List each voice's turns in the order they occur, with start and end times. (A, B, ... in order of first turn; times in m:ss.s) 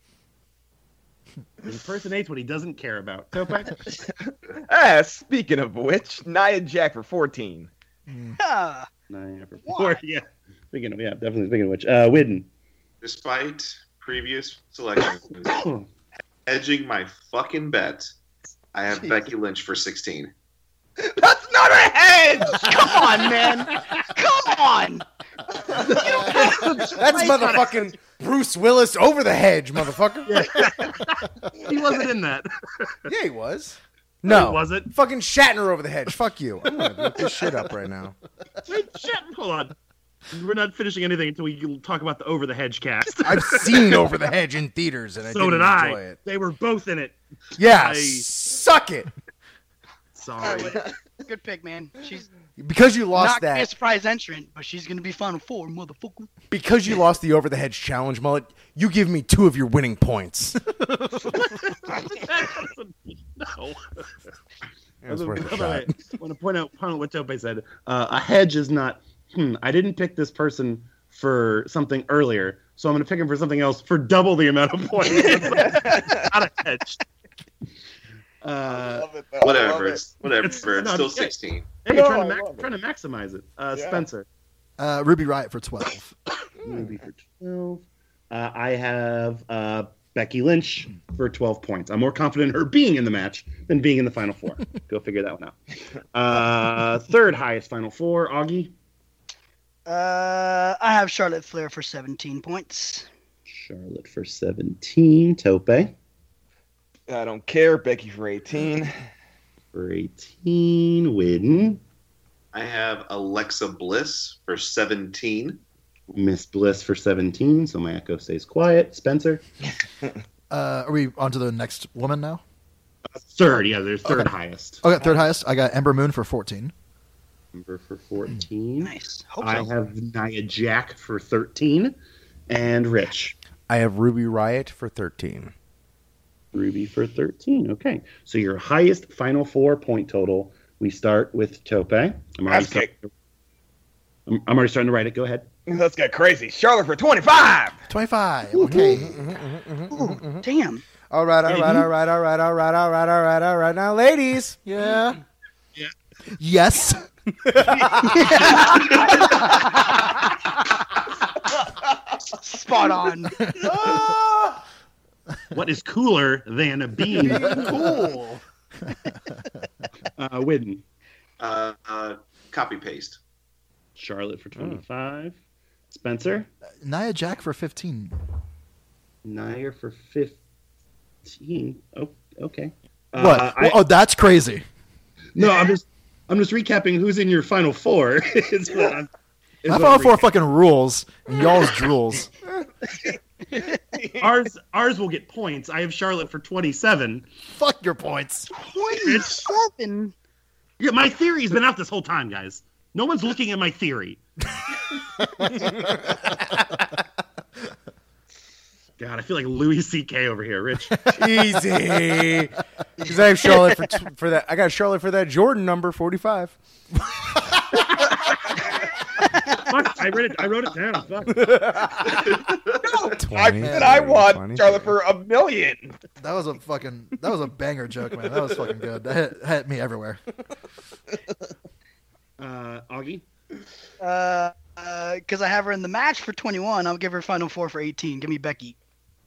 0:01.6-0:03.8 A
0:04.5-0:07.7 B
0:08.1-0:08.4 C
0:08.4-0:08.9 D
0:09.1-0:12.5 A
0:09.6-0:10.0 D
0:13.0-0:15.6 E
0:15.5-0:15.8 A
0:16.4-0:18.1 E
0:18.7-0:20.3 E
0:21.0-0:23.4 B
0:22.5-0:25.0 D
0:23.0-0:23.8 A
0:25.8-0:26.4 B
0:25.9-0:27.7 D
0:25.9-0:27.6 A
0:26.4-0:30.5 F
0:30.2-0:33.0 A
0:33.1-0:38.1 F
0:34.2-0:34.9 A
0:38.6-0:39.7 A
0:40.3-0:44.0 A
0:43.2-0:46.2 F
0:45.2-0:48.2 A
0:47.6-0:49.1 F
0:50.1-0:50.8 A
0:50.6-0:52.3 D
0:52.6-0:53.7 F
0:53.1-0:56.3 D
0:56.5-1:00.6 F
1:01.3-1:04.1 A
1:05.0-1:05.9 F
1:05.1-1:17.0 A
1:15.2-1:16.2 B
1:18.4-1:19.1 A
1:18.7-1:20.0 B
1:19.4-1:21.7 E
1:20.3-1:24.2 A
1:21.9-1:22.7 B
1:23.7-1:24.0 B
1:24.8-1:26.1 C
1:26.6-1:35.6 A
1:36.1-1:38.7 A
1:39.8-1:43.1 D
1:43.5-1:45.9 A
1:47.1-1:48.9 B
1:49.7-1:51.8 A
1:52.5-1:55.6 E
1:56.1-1:59.4 A
2:00.5-2:02.4 C
2:03.2-2:04.8 A
2:04.8-2:06.7 C
2:07.5-2:11.9 A
2:08.8-2:09.7 D
2:12.5-2:13.4 A
2:13.7-2:15.5 F
2:16.5-2:23.1 A
2:22.5-2:22.9 B
2:24.3-2:25.5 A
2:25.6-2:27.8 B
2:27.9-2:29.1 C
2:28.6-2:28.8 A
2:28.6-2:30.4 F
2:29.9-2:30.8 D
2:31.1-2:34.6 F
2:31.5-2:31.8 A
2:34.6-2:35.2 C
2:36.4-2:37.0 C
2:37.4-2:38.2 F
2:38.1-2:40.0 D
2:42.4-2:43.4 D
2:43.6-2:44.1 F
2:45.5-2:47.7 A
2:47.1-2:48.4 F
2:50.2-2:50.8 A
2:51.4-2:53.2 E
2:54.0-2:55.4 A
2:54.6-2:54.8 F
2:55.9-2:56.5 A
2:56.8-2:58.2 C
2:59.2-3:00.4 A
3:01.2-3:03.8 A
3:03.2-3:04.6 C
3:05.4-3:09.1 A
3:09.6-3:10.2 A
3:09.7-3:12.3 C
3:14.2-3:17.2 A
3:17.5-3:18.5 C
3:18.6-3:20.1 D
3:19.0-3:19.4 A
3:20.8-3:24.2 A
3:29.0-3:31.1 A
3:31.1-3:36.6 F
3:39.7-3:42.0 A
3:42.3-3:42.6 E
3:42.8-3:46.0 B
3:43.1-3:45.0 F
3:43.6-3:44.0 C
3:46.2-3:50.2 C
3:52.4-3:53.2 A
3:54.0-3:58.7 D